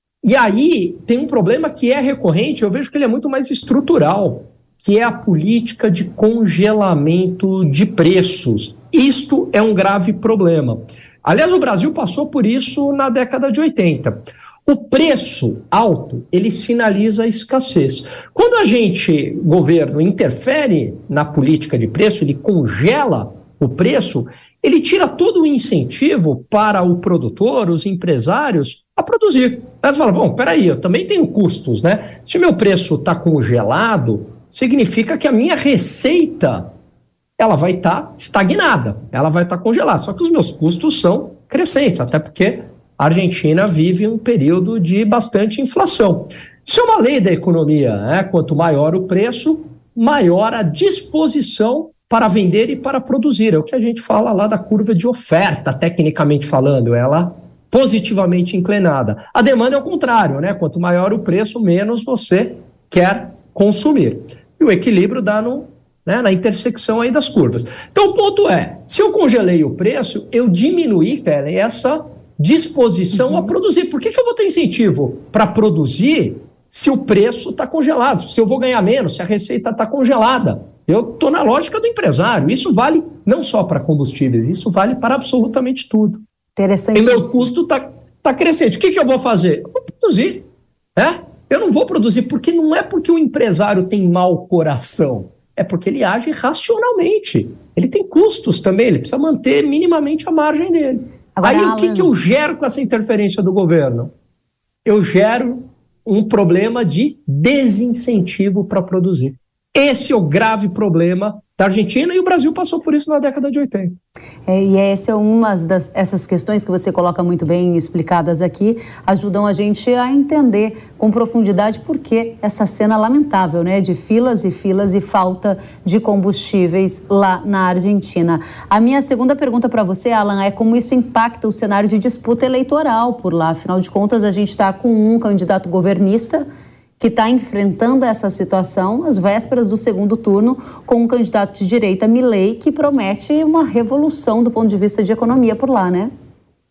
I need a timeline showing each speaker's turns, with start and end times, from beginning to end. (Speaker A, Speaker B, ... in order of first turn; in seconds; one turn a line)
Speaker A: 0.2-36.7
Speaker A: 37.4-86.2
Speaker B: 86.6-87.5
Speaker A: 86.9-104.1
Speaker B: 101.4-102.1
Speaker A: 104.8-114.0
Speaker B: 114.5-136.5
Speaker B: 137.0-146.1